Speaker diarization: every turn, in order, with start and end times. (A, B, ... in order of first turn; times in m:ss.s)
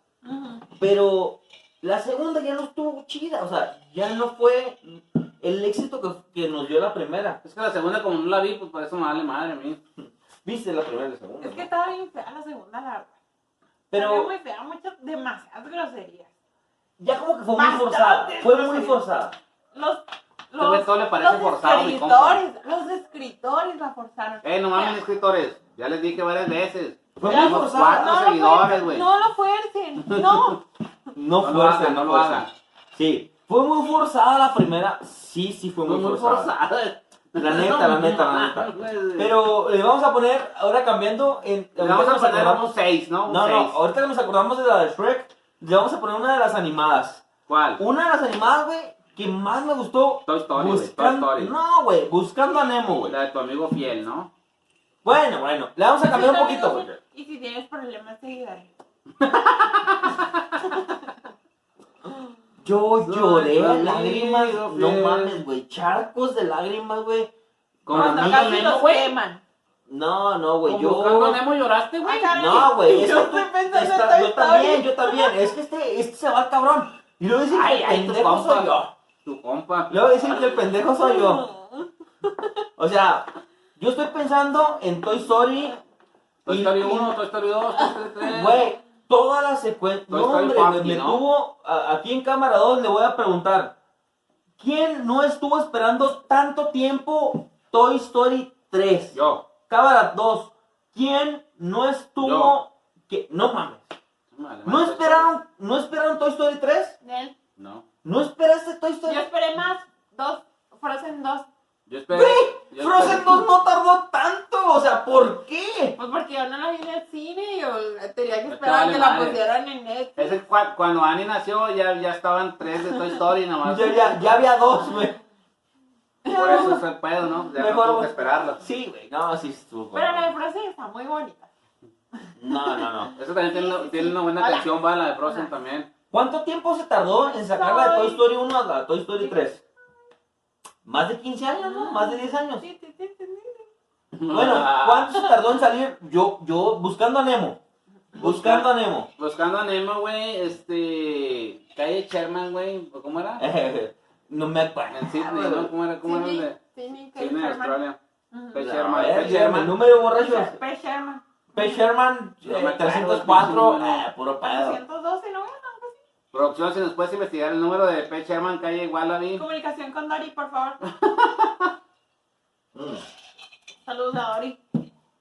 0:00.2-0:00.6 A
0:00.8-0:07.4 B
0:07.4-0:09.8 C
0:10.0-0:11.7 B
0:11.4-0:13.1 A
0:13.9-0:14.3 B
0:13.9-0:16.3 A
0:17.0-0:19.4 B
0:17.5-0:19.0 A
0:19.7-0:25.0 A
0:20.6-0:22.4 C
0:24.4-0:29.1 C
0:27.2-0:28.2 B
0:27.2-0:30.6 A
0:30.0-0:30.6 C
0:31.2-0:36.5 B
0:31.4-0:32.5 C
0:35.8-0:39.3 C
0:37.4-0:47.3 B
0:41.8-0:43.8 C
0:47.5-0:47.8 C
0:47.8-0:53.2 B
0:50.3-0:51.5 C
0:53.1-0:54.3 C
0:55.0-0:57.0 B
0:56.1-0:58.7 A
0:59.2-1:00.4 C
1:02.6-1:07.3 B
1:03.0-1:05.3 C
1:07.9-1:09.1 C
1:07.9-1:08.7 B
1:07.9-1:09.4 A
1:09.9-1:11.4 B
1:10.7-1:12.6 C
1:12.0-1:15.3 A
1:12.3-1:18.9 B
1:17.5-1:20.6 C
1:19.9-1:21.5 B
1:20.9-1:22.6 A
1:22.8-1:25.8 B
1:26.4-1:28.7 C
1:26.5-1:27.2 B
1:28.2-1:33.7 B
1:30.1-1:31.2 C
1:34.6-1:43.9 B
1:39.1-1:39.4 C
1:42.2-1:42.5 C
1:44.3-1:45.3 C
1:44.7-1:47.0 B
1:47.0-1:47.4 A
1:47.6-1:47.8 C
1:48.0-1:49.2 B
1:49.1-1:51.5 A
1:51.9-1:53.4 C
1:52.1-1:56.0 B
1:56.0-2:00.4 A
1:58.5-1:59.4 C
2:00.2-2:04.2 C
2:03.6-2:05.2 B
2:06.2-2:06.8 A
2:06.3-2:08.6 C
2:07.6-2:10.3 B
2:09.9-2:11.5 A
2:12.2-2:14.7 A
2:12.4-2:13.1 B
2:13.2-2:15.9 C
2:16.1-2:19.6 B
2:17.4-2:18.3 A
2:19.2-2:19.6 A
2:20.8-2:22.6 B
2:21.6-2:23.7 A
2:24.1-2:25.2 C
2:24.3-2:27.6 B
2:28.2-2:29.1 B
2:28.2-2:33.4 C
2:33.4-2:35.7 B
2:34.9-2:36.6 C
2:36.0-2:37.8 A
2:37.2-2:38.0 C
2:38.3-2:38.6 A
2:38.5-2:39.8 C
2:38.6-2:40.6 B
2:40.1-2:41.8 A
2:41.5-2:44.8 B
2:42.4-2:44.1 C
2:44.4-2:46.0 A
2:46.3-2:49.4 C
2:49.4-2:50.8 A
2:50.8-2:51.7 C
2:52.7-2:53.0 B
2:53.8-2:54.6 A